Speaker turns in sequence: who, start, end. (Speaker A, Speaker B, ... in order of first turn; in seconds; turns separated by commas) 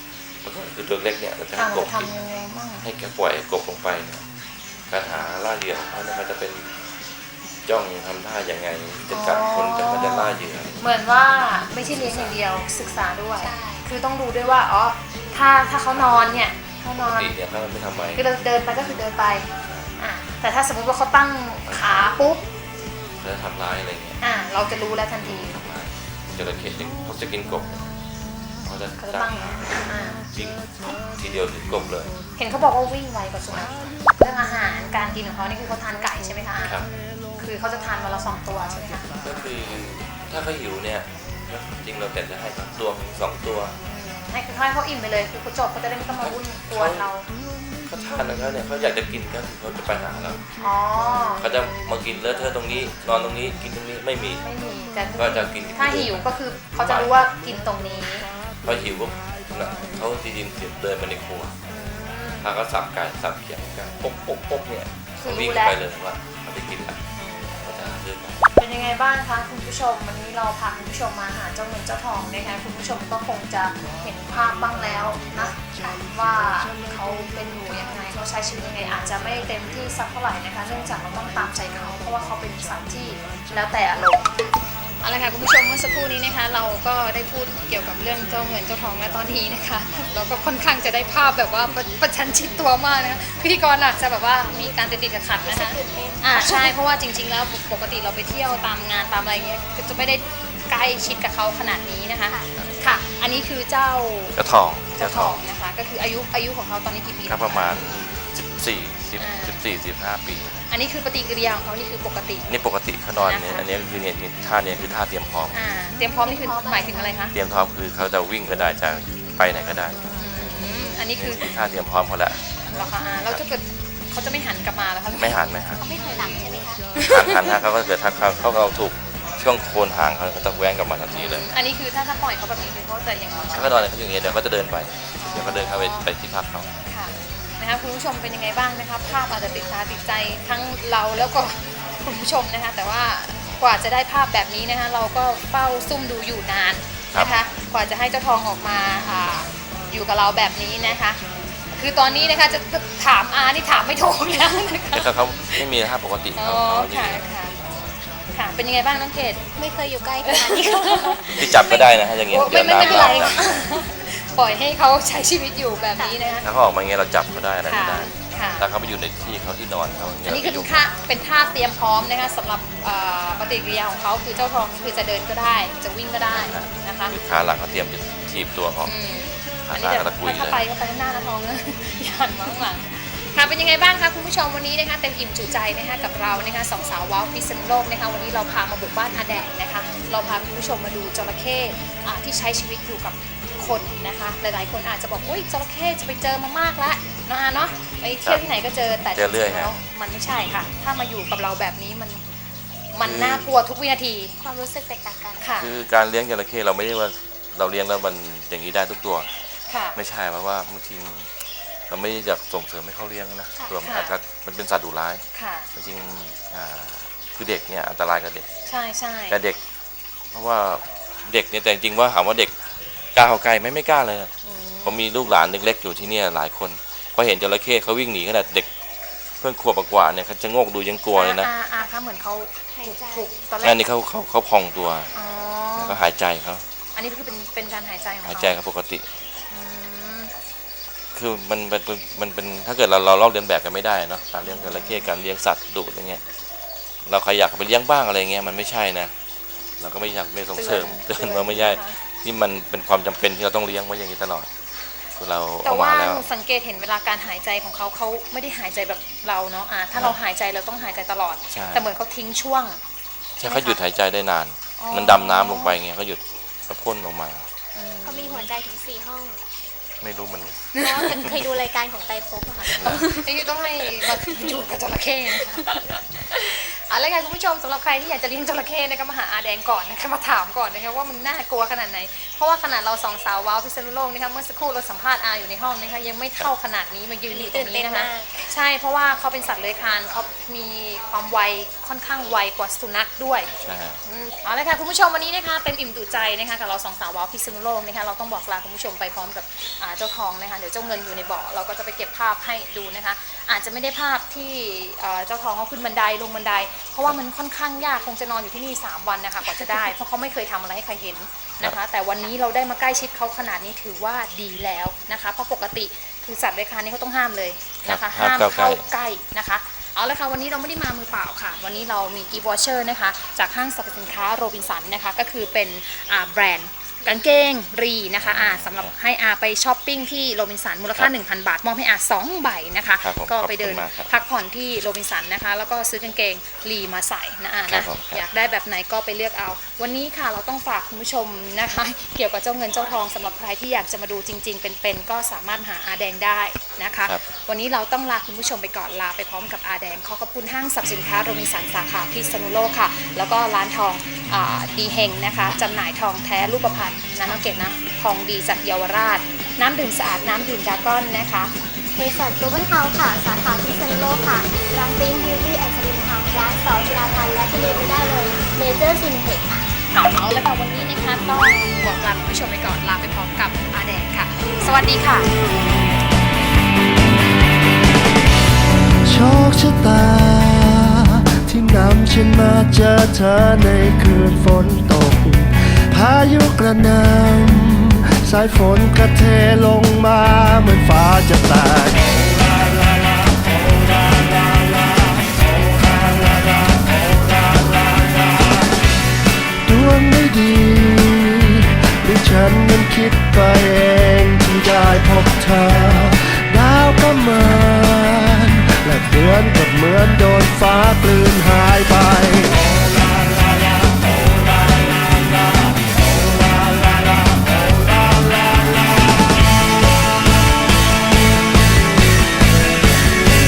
Speaker A: 0.4-2.1, Speaker B: 1.6-2.8, Speaker A: 2.8-4.2, Speaker A: 4.9-6.7, Speaker A: 7.7-10.8, Speaker B: 9.1-17.3, Speaker A: 11.8-12.4, Speaker C: 13.4-13.9, Speaker A: 15.9-18.2, Speaker B: 18.1-22.4, Speaker A: 19.6-19.9, Speaker A: 21.6-22.3, Speaker A: 23.2-24.2, Speaker B: 24.2-25.6, Speaker A: 25.2-27.9, Speaker A: 28.6-32.1, Speaker B: 29.0-30.2, Speaker B: 32.4-36.8, Speaker A: 33.5-34.0, Speaker A: 36.6-36.9, Speaker B: 37.4-39.2, Speaker A: 39.2-43.8, Speaker B: 43.8-47.3, Speaker A: 46.2-47.1, Speaker A: 47.9-50.4, Speaker B: 50.6-52.3, Speaker A: 51.4-54.4, Speaker B: 54.4-58.3, Speaker A: 55.2-56.2, Speaker A: 56.8-57.1, Speaker A: 58.6-61.5, Speaker B: 61.6-62.5, Speaker A: 62.4-67.0, Speaker B: 65.2-65.8, Speaker B: 67.2-67.9, Speaker A: 67.6-68.5, Speaker B: 68.5-84.3, Speaker B: 85.0-107.8, Speaker C: 95.4-96.7, Speaker A: 104.3-105.4, Speaker A: 107.2-110.7, Speaker B: 109.2-109.6, Speaker B: 110.7-112.5, Speaker A: 112.5-115.6, Speaker B: 113.2-113.6, Speaker B: 115.5-117.3, Speaker C: 116.0-117.3, Speaker A: 117.3-120.1, Speaker B: 120.0-121.5, Speaker A: 121.2-122.6, Speaker B: 122.7-127.4, Speaker A: 125.1-125.8, Speaker C: 125.8-126.9, Speaker A: 126.9-131.5, Speaker B: 131.1-133.9, Speaker A: 133.5-136.7, Speaker B: 135.2-136.1, Speaker B: 136.8-151.2, Speaker A: 147.1-147.4, Speaker C: 147.1-147.4, Speaker B: 151.8-155.7, Speaker A: 154.9-157.2, Speaker B: 156.3-157.6, Speaker B: 158.3-159.4, Speaker C: 159.6-161.8, Speaker B: 160.2-166.4, Speaker A: 161.4-163.4, Speaker C: 162.8-163.4, Speaker C: 166.0-166.4, Speaker A: 166.4-170.9, Speaker B: 167.7-168.7, Speaker B: 170.2-177.1, Speaker A: 176.3-178.9, Speaker B: 178.8-202.2, Speaker A: 179.6-180.6, Speaker A: 199.1-199.8, Speaker B: 202.9-204.3, Speaker A: 203.0-203.5, Speaker C: 204.4-205.5, Speaker B: 205.4-205.8, Speaker A: 205.6-209.3, Speaker B: 209.7-209.9, Speaker A: 209.9-211.3, Speaker A: 211.9-218.5, Speaker B: 213.8-214.1, Speaker B: 215.3-215.7, Speaker B: 218.7-219.4, Speaker A: 219.3-219.6, Speaker A: 220.3-222.5, Speaker A: 223.1-224.3, Speaker B: 224.4-225.0, Speaker A: 224.8-228.7, Speaker A: 229.4-231.5, Speaker B: 231.1-233.8, Speaker C: 232.7-233.4, Speaker A: 233.6-235.1, Speaker B: 235.1-236.0, Speaker A: 235.8-236.6, Speaker B: 236.9-238.6, Speaker A: 238.2-239.1, Speaker B: 239.5-240.3, Speaker A: 241.1-246.2, Speaker B: 244.4-245.1, Speaker A: 247.1-249.1, Speaker A: 249.8-254.5, Speaker B: 250.6-252.0, Speaker A: 255.2-256.2, Speaker B: 255.6-262.8, Speaker A: 259.9-260.2, Speaker A: 261.5-261.9, Speaker A: 263.4-267.5, Speaker B: 263.4-263.8, Speaker B: 264.8-265.8, Speaker B: 267.7-268.5, Speaker C: 268.0-269.4, Speaker A: 270.0-271.3, Speaker B: 270.8-271.2, Speaker C: 270.8-273.4, Speaker A: 272.6-273.1, Speaker B: 272.8-293.5, Speaker C: 274.0-274.6, Speaker C: 275.6-275.9, Speaker C: 287.3-288.4, Speaker A: 293.5-294.0, Speaker B: 294.2-361.5, Speaker A: 317.8-318.8, Speaker C: 327.0-327.5, Speaker A: 328.2-328.9, Speaker A: 333.0-334.1, Speaker A: 337.7-338.2, Speaker C: 361.9-369.7, Speaker B: 369.9-375.3, Speaker D: 379.0-398.6, Speaker D: 399.6-412.8, Speaker D: 416.4-417.3